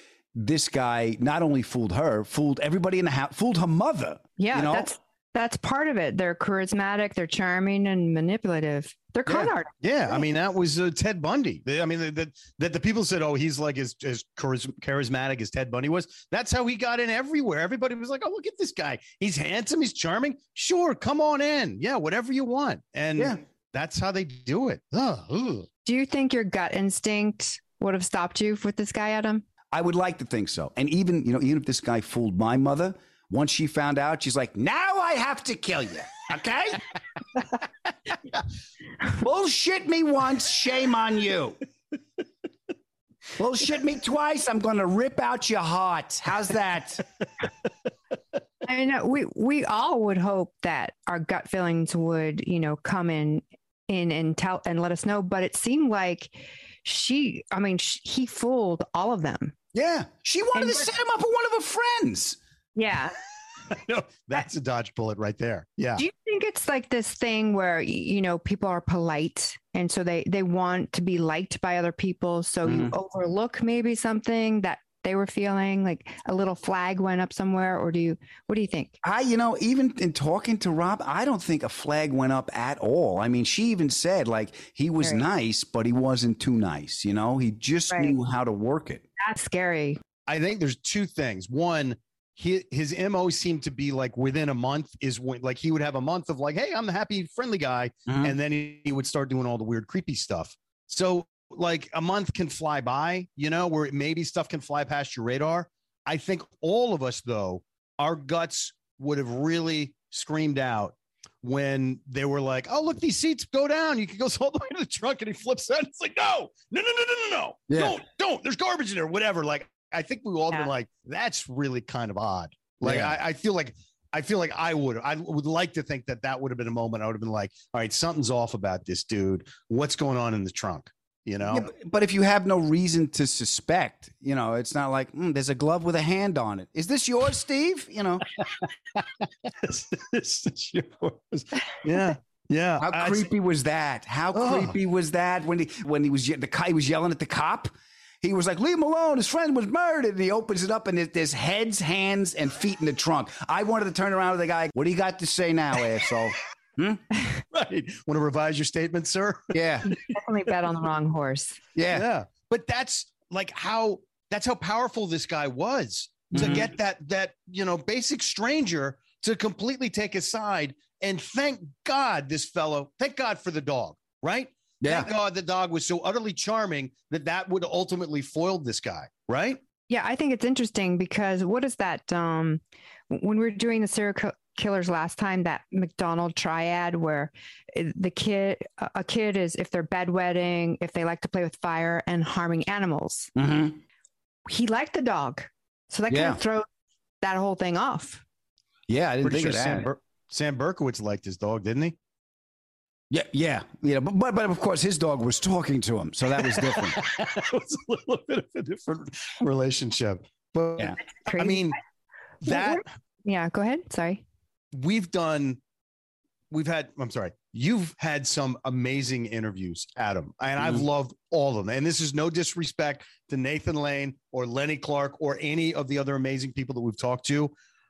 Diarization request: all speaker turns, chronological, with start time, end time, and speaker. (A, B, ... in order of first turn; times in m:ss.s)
0:00.4-0:04.9 A
0:04.4-0:09.7 B
0:09.3-0:25.7 C
0:25.8-0:29.4 B
0:29.7-0:36.8 A
0:39.2-0:41.6 A
0:43.4-0:47.0 A
0:48.6-0:59.6 B
0:59.7-1:02.4 A
1:00.6-1:00.9 B
1:02.8-1:03.2 B
1:03.7-1:06.0 C
1:06.0-1:19.0 B
1:12.6-1:13.0 A
1:19.0-1:29.0 A
1:27.9-1:28.2 B
1:29.2-1:30.0 B
1:30.3-2:11.7 C
1:38.1-1:38.4 A
1:57.7-1:58.0 A
2:02.8-2:03.2 A
2:11.5-2:18.3 A
2:18.6-2:23.3 C
2:22.8-2:37.0 A
2:24.3-2:24.7 C
2:37.5-2:39.5 C
2:39.5-2:39.9 A
2:40.0-2:41.6 B
2:41.8-2:42.1 A
2:41.9-2:59.6 C
2:46.3-2:46.7 A
2:54.8-2:55.1 A
2:59.9-3:13.3 B
3:13.4-3:13.8 A
3:14.5-3:16.7 B
3:16.1-3:16.4 A
3:17.2-3:18.2 B
3:18.9-3:19.9 A
3:19.2-3:22.0 C
3:23.1-3:27.0 A
3:26.4-3:31.8 C
3:31.2-3:31.7 B
3:32.4-3:32.8 C
3:32.4-3:34.2 B
3:34.7-3:35.6 C
3:36.5-3:47.5 C
3:40.6-3:40.8 A